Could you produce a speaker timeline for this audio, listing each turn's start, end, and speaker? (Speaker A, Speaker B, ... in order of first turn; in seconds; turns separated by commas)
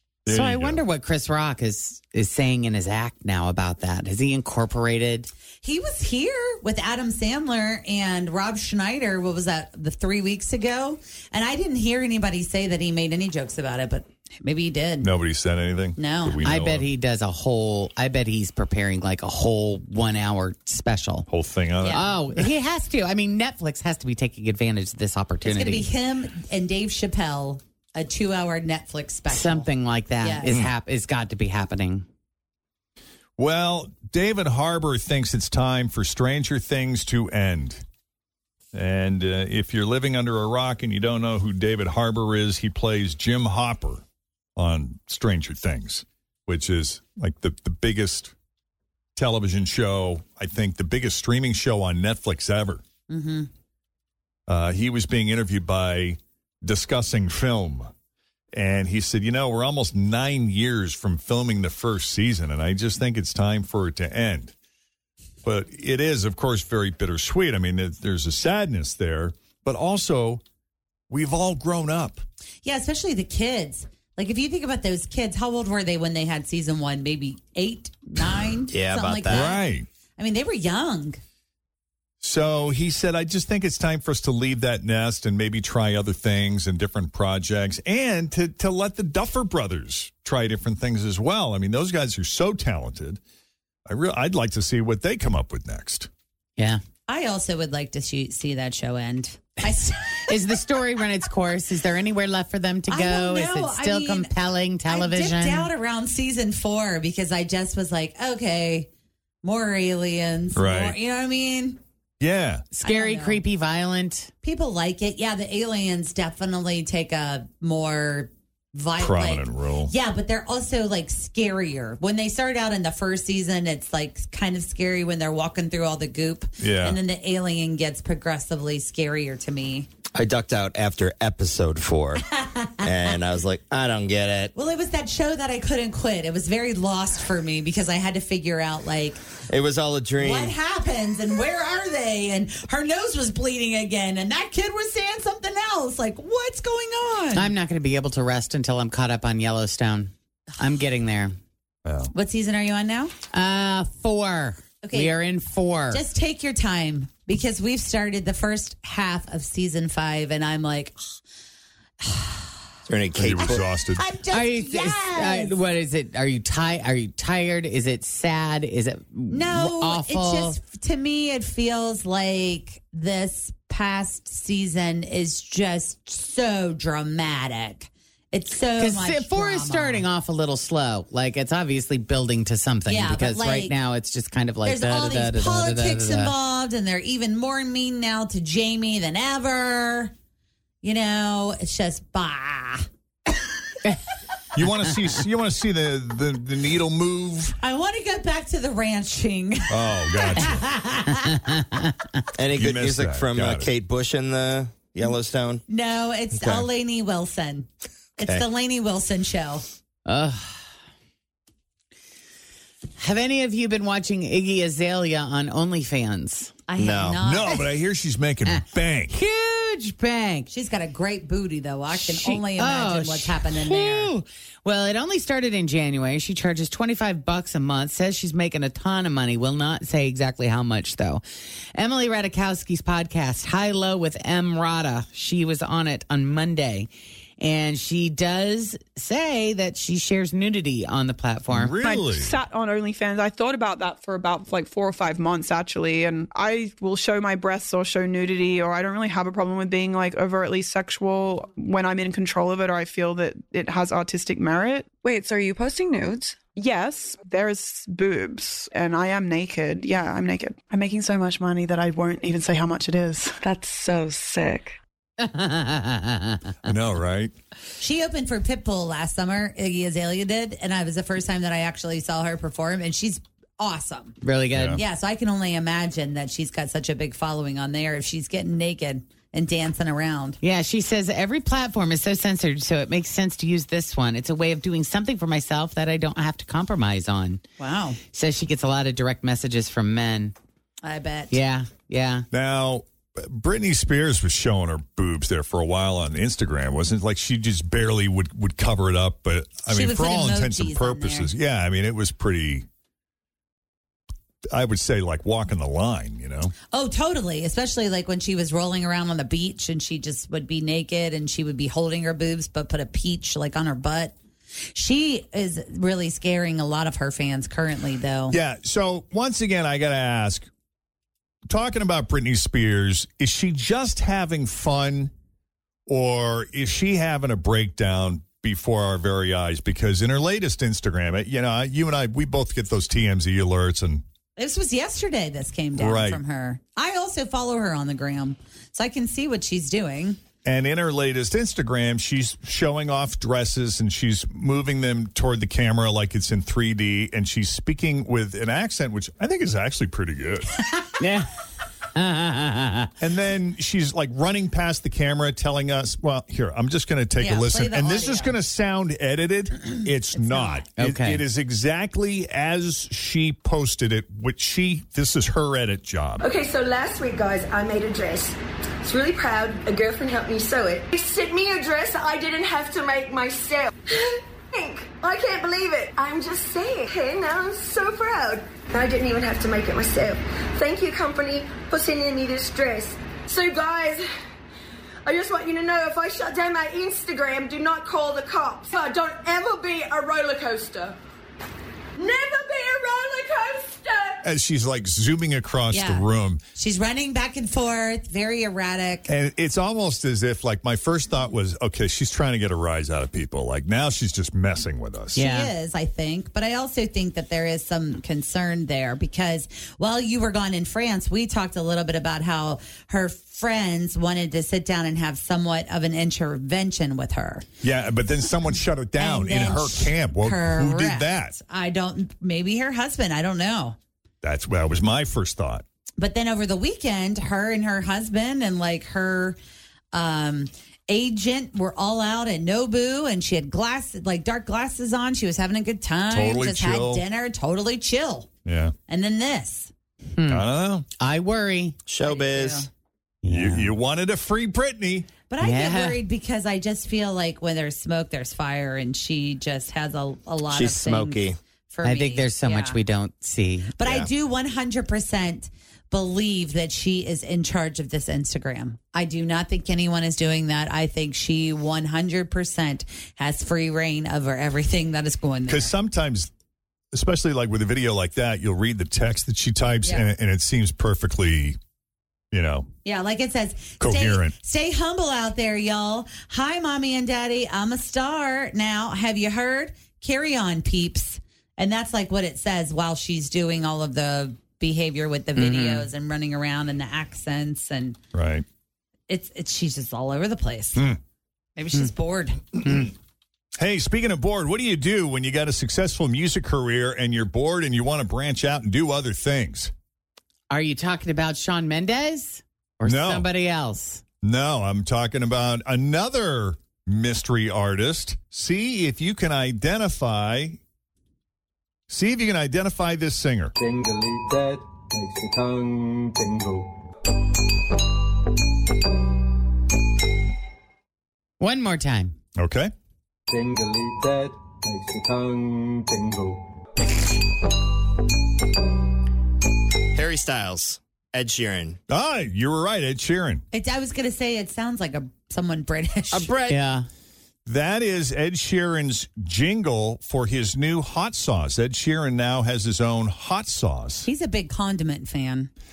Speaker A: 0.2-0.8, Speaker B: 0.3-5.3, Speaker C: 5.6-15.1, Speaker A: 15.0-16.9, Speaker C: 15.9-16.4, Speaker B: 16.4-21.3, Speaker A: 21.3-22.5, Speaker C: 21.8-22.1, Speaker B: 21.9-25.9, Speaker C: 25.4-29.7, Speaker B: 29.3-32.0, Speaker C: 30.2-30.5, Speaker A: 33.4-37.8, Speaker A: 38.7-44.0, Speaker A: 44.5-48.3, Speaker A: 49.1-52.8, Speaker C: 53.1-53.5, Speaker A: 54.5-57.9, Speaker A: 58.5-64.5, Speaker A: 65.4-70.4, Speaker A: 71.1-72.2, Speaker C: 72.6-79.6, Speaker D: 78.7-79.6, Speaker A: 79.3-79.9, Speaker C: 80.2-81.2, Speaker A: 82.2-93.2, Speaker A: 93.8-96.1, Speaker C: 97.1-100.2, Speaker B: 100.3-105.7, Speaker C: 102.9-104.3, Speaker C: 104.9-108.9, Speaker C: 109.4-111.8, Speaker A: 110.5-111.0, Speaker A: 112.2-112.7, Speaker B: 112.7-114.3, Speaker C: 112.8-113.4, Speaker C: 114.4-129.9, Speaker A: 119.0-119.9, Speaker A: 126.6-127.0, Speaker D: 130.1-132.2, Speaker C: 132.3-133.1, Speaker D: 132.8-134.5, Speaker C: 134.5-139.2, Speaker D: 139.5-140.6, Speaker C: 140.2-147.5, Speaker B: 147.3-151.3, Speaker A: 151.8-152.1, Speaker C: 152.1-153.1, Speaker B: 153.3-156.0, Speaker C: 154.8-155.1, Speaker C: 155.9-161.0, Speaker C: 162.0-162.5, Speaker D: 162.9-163.7, Speaker A: 163.1-164.1, Speaker C: 163.9-165.5, Speaker B: 164.3-170.6, Speaker C: 169.3-180.0, Speaker B: 178.8-186.3, Speaker C: 182.8-183.7, Speaker C: 184.6-190.1, Speaker C: 190.8-192.9, Speaker A: 194.5-197.6, Speaker C: 197.6-201.4, Speaker A: 199.7-200.7, Speaker B: 201.4-202.0, Speaker D: 202.4-205.6, Speaker A: 202.5-203.7, Speaker C: 205.7-207.7, Speaker D: 206.3-206.7, Speaker C: 208.2-209.6, Speaker D: 208.2-208.5, Speaker B: 210.1-210.6, Speaker B: 213.0-216.5, Speaker C: 216.7-217.6, Speaker D: 216.8-217.2, Speaker A: 217.2-219.2, Speaker B: 218.5-220.5, Speaker C: 220.5-224.1, Speaker B: 221.9-231.2, Speaker B: 231.7-241.8, Speaker A: 241.5-242.4, Speaker E: 241.8-254.9, Speaker F: 255.0-256.4, Speaker E: 256.5-263.4, Speaker F: 263.4-264.8, Speaker B: 265.2-266.5, Speaker A: 266.6-267.3, Speaker C: 267.8-274.2, Speaker B: 274.2-274.8, Speaker A: 274.5-274.8, Speaker C: 274.7-280.4, Speaker B: 280.4-287.4, Speaker C: 287.6-288.0, Speaker B: 288.1-290.3, Speaker C: 290.8-291.4, Speaker B: 291.3-292.2, Speaker A: 292.3-302.7, Speaker C: 299.7-301.3, Speaker A: 304.5-306.5, Speaker C: 306.7-314.1, Speaker C: 314.7-318.4, Speaker A: 318.3-320.5, Speaker A: 321.5-325.1, Speaker A: 325.9-334.0, Speaker C: 334.4-340.2, Speaker A: 335.8-336.2, Speaker A: 340.4-350.6, Speaker B: 351.0-351.3, Speaker B: 351.9-352.9, Speaker A: 353.0-366.2, Speaker C: 357.2-358.3, Speaker C: 360.1-360.6, Speaker B: 360.8-361.2, Speaker G: 366.2-384.0, Speaker G: 385.0-391.0, Speaker G: 391.9-394.2, Speaker A: 394.2-396.4, Speaker C: 395.7-396.0, Speaker C: 396.5-399.1, Speaker A: 399.1-405.2, Speaker B: 405.1-405.5, Speaker C: 405.1-417.4, Speaker A: 417.6-421.4, Speaker C: 419.0-423.8, Speaker A: 424.2-425.6, Speaker C: 426.0-429.4, Speaker C: 429.9-438.3, Speaker A: 436.1-437.0, Speaker A: 438.4-438.7, Speaker C: 438.9-439.7, Speaker B: 440.1-440.4, Speaker A: 440.3-440.9, Speaker B: 441.0-441.8, Speaker D: 441.9-442.7, Speaker C: 442.0-442.7, Speaker B: 443.2-443.7, Speaker A: 443.3-445.1, Speaker C: 445.3-452.8, Speaker B: 445.4-446.0, Speaker D: 450.5-451.4, Speaker B: 451.8-453.7, Speaker C: 453.8-465.7, Speaker A: 465.5-466.3, Speaker A: 466.9-471.6, Speaker A: 472.3-472.7, Speaker C: 472.8-488.0, Speaker A: 473.8-474.3, Speaker B: 485.4-485.9, Speaker A: 488.1-488.4, Speaker C: 489.1-490.8, Speaker C: 491.6-492.8, Speaker A: 493.6-499.7, Speaker B: 500.5-504.0, Speaker A: 502.8-503.3, Speaker A: 504.2-510.6, Speaker A: 511.9-513.5, Speaker H: 513.6-516.7, Speaker B: 521.4-522.1, Speaker A: 522.4-522.7, Speaker H: 523.3-526.4, Speaker D: 529.9-531.8, Speaker A: 531.9-533.4, Speaker C: 533.5-536.3, Speaker B: 536.5-536.9, Speaker A: 537.5-544.1, Speaker C: 544.0-545.5